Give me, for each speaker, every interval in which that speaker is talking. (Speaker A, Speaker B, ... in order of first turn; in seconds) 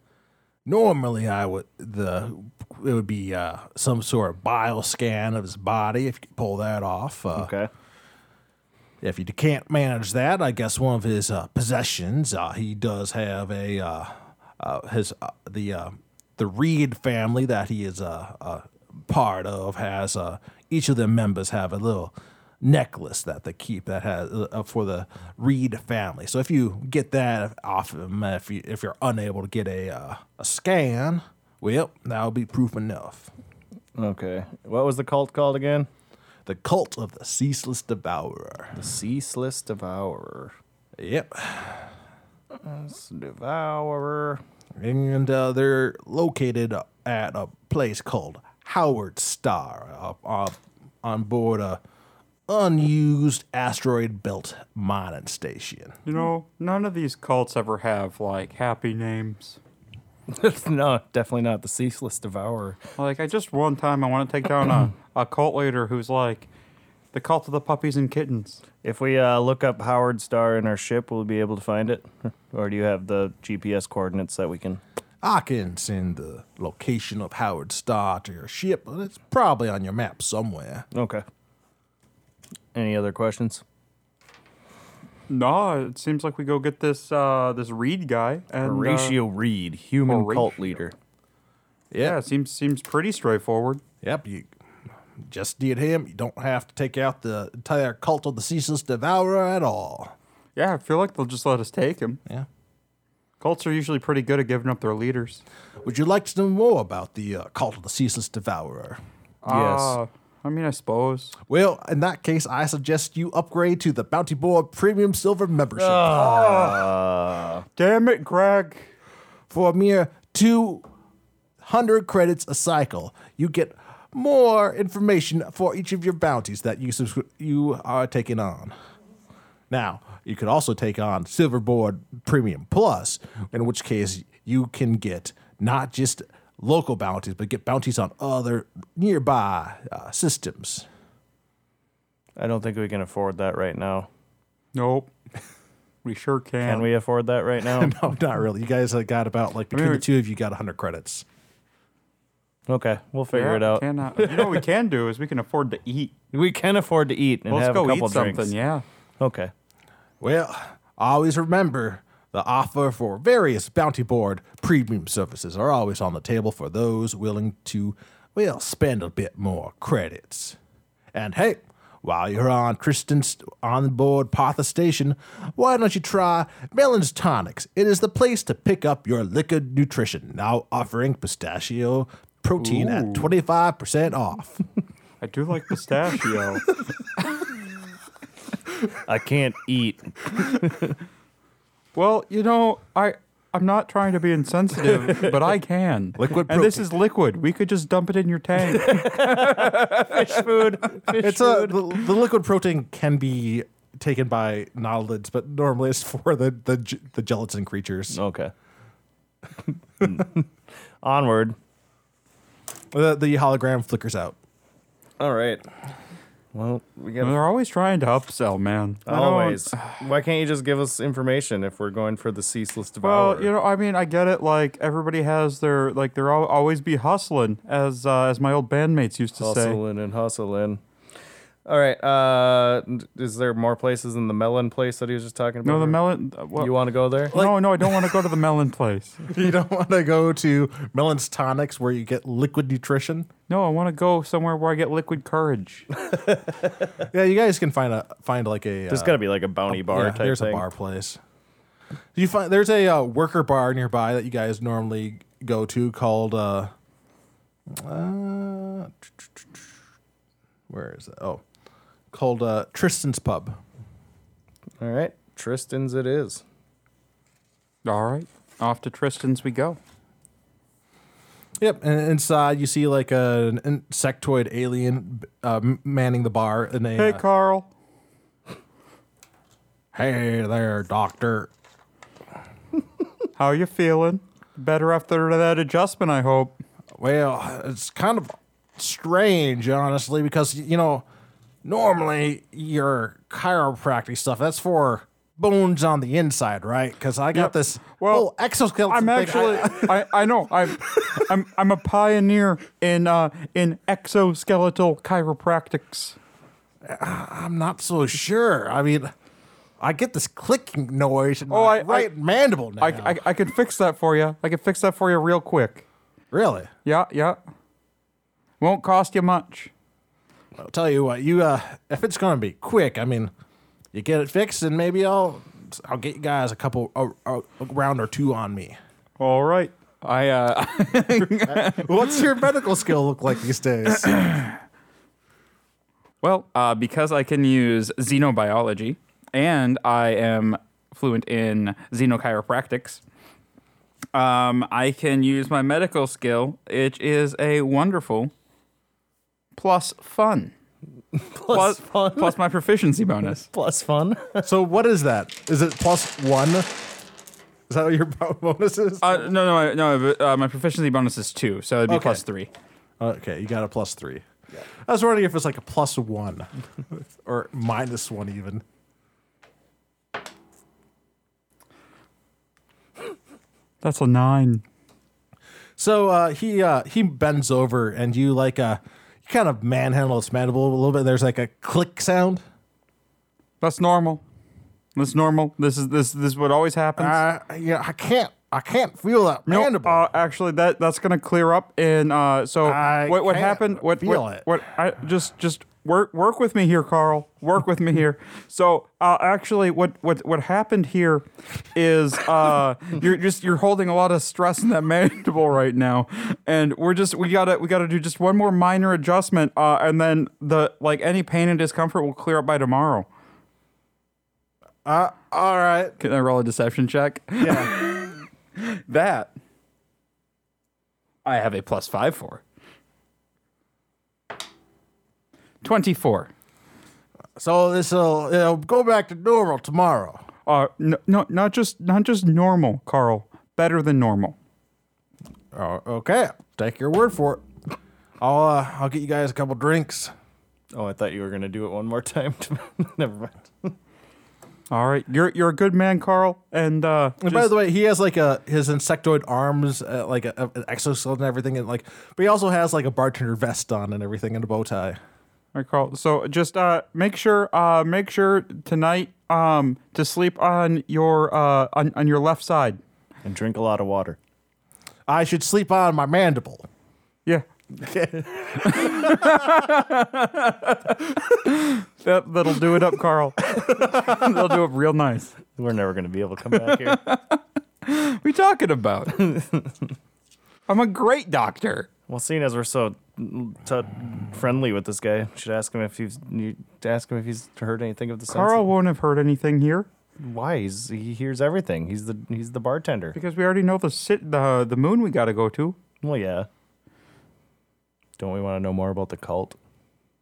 Speaker A: 0.7-7.5, 9.0-33.3, 36.5-38.8, 41.0-41.9, 44.8-51.8, 52.5-56.0, 75.2-80.9, 91.9-92.2, 94.0-94.5, 95.2-100.1, 105.8-109.0, 111.5-116.4, 119.5-120.8, 121.6-128.7, 129.7-140.9, 147.6-151.2, 160.2-170.6, 171.1-184.6, 196.2-196.9, 201.2-208.2, 212.9-214.4, 237.3-237.9, 239.3-243.3, 247.0-251.2, 252.1-256.7, 257.7-259.6, 260.7-261.4, 262.1-263.6, 271.6-277.2, 279.9-281.5, 287.0-291.1, 291.6-300.0, 306.8-309.1, 309.8-313.2, 316.3-316.7, 320.6-323.3, 323.9-328.8, 331.5-334.6, 354.4-356.9, 357.7-359.3, 361.9-362.2, 363.0-364.3, 364.8-368.6, 375.8-382.4, 387.0-390.0, 392.6-394.5, 414.9-416.0, 417.4-417.7, 427.4-430.2, 435.5-437.4, 438.2-440.1, 447.2-455.0, 465.1-466.7, 467.8-469.4
Speaker B: 7.4-7.7, 34.0-35.9, 38.8-40.5, 42.6-44.4, 60.3-62.8, 68.8-74.8, 80.9-81.2, 82.7-83.6, 88.6-91.0, 109.5-110.0, 115.8-117.7, 142.4-144.1, 146.7-147.9, 152.7-154.6, 156.3-158.5, 159.2-159.5, 188.9-191.0, 198.7-201.9, 208.1-208.5, 210.0-210.5, 211.0-211.6, 215.2-215.6, 216.5-217.4, 219.1-223.5, 229.4-230.8, 231.7-236.0, 236.5-237.4, 248.9-250.7, 264.8-266.4, 351.1-352.4, 353.4-354.5, 440.7-443.8, 463.2-464.2, 475.6-477.0, 479.2-479.7, 482.1-488.6, 490.2-493.2, 496.0-496.5, 498.2-499.6
Speaker C: 56.0-59.6, 63.0-66.5, 67.1-68.6, 85.3-89.2, 90.1-90.5, 92.0-93.8, 100.6-102.2, 103.4-105.4, 109.4-111.4, 116.1-116.9, 117.8-118.9, 144.8-145.1, 146.1-146.9, 149.7-150.0, 153.3-156.1, 157.5-158.8, 182.6-183.3, 185.2-186.7, 191.9-200.4, 217.2-220.0, 223.0-229.8, 235.7-236.7, 237.3-239.2, 243.5-245.9, 267.9-269.8, 277.0-277.7, 283.4-286.6, 297.3-298.3, 298.9-306.2, 311.5-312.1, 312.8-315.9, 316.9-317.4, 318.6-319.7, 329.2-332.1, 336.2-343.0, 344.1-348.3, 349.6-350.5, 351.5-353.5, 359.0-362.5, 373.8-374.6, 383.6-384.2, 385.0-387.2, 389.5-413.1, 416.0-419.3, 421.2-422.4, 425.6-426.3, 430.5-434.4, 444.7-447.5, 455.6-462.8, 468.6-475.4, 476.6-479.3, 480.7-481.9, 488.3-489.9, 493.1-495.8